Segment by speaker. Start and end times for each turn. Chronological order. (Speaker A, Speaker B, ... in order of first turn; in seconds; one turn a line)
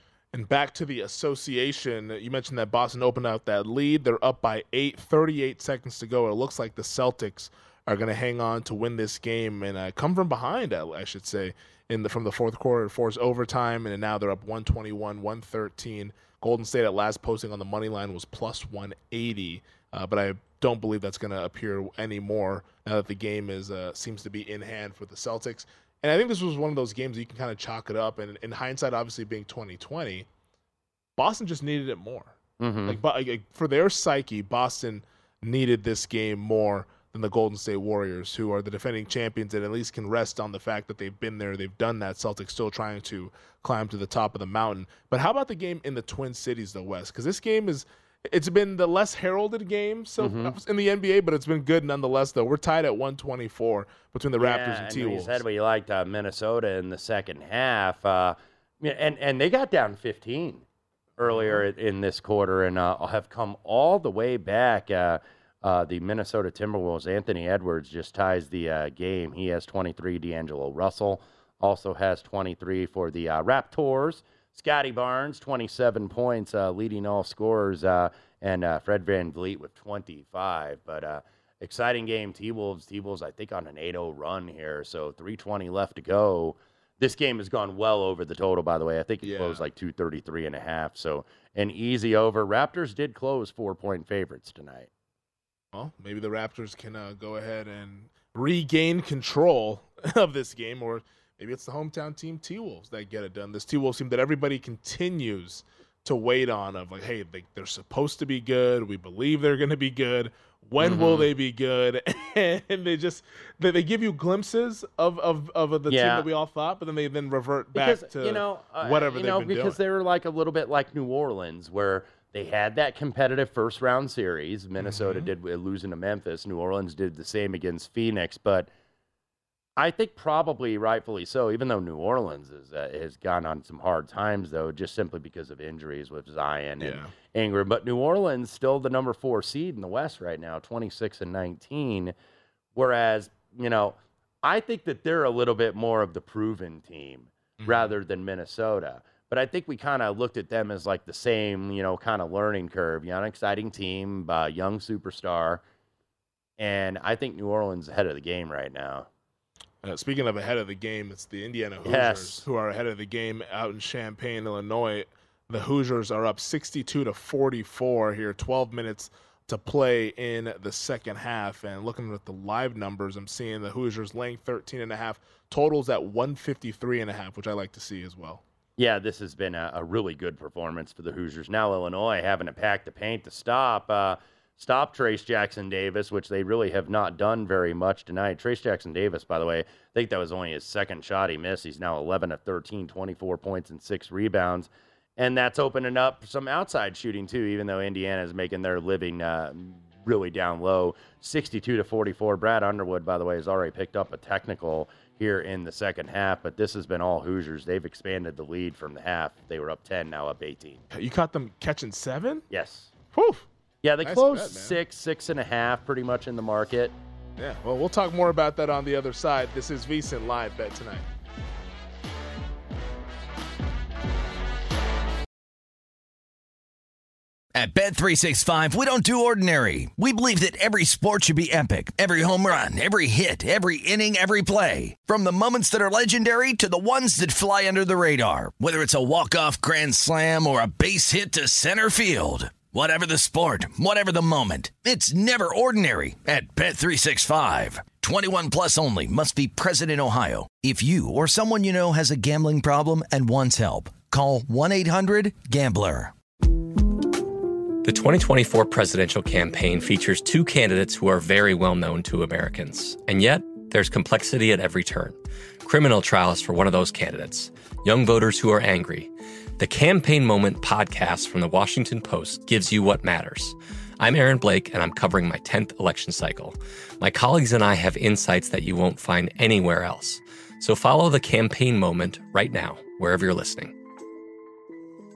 Speaker A: 0.3-30.3
Speaker A: 31.2-55.4
Speaker B: 32.6-33.0
Speaker B: 50.2-50.6
Speaker B: 54.4-60.6
Speaker B: 61.2-94.9
Speaker A: 61.2-61.6
Speaker A: 89.2-89.6
Speaker A: 95.7-119.8
Speaker B: 110.8-111.3
Speaker B: 115.9-116.3
Speaker B: 117.7-128.7
Speaker A: 124.8-125.3
Speaker B: 129.8-142.1
Speaker A: 136.8-137.1
Speaker B: 142.7-155.6
Speaker A: 147.6-147.9
Speaker B: 156.6-159.1
Speaker A: 159.8-178.4
Speaker B: 161.8-162.4
Speaker B: 178.8-210.8
Speaker A: 210.9-212.4
Speaker B: 212.5-212.9
Speaker A: 213.1-213.4
Speaker B: 213.8-216.9
Speaker A: 214.0-214.8
Speaker A: 217.4-221.1
Speaker C: 227.5-256.1
Speaker D: 257.8-283.7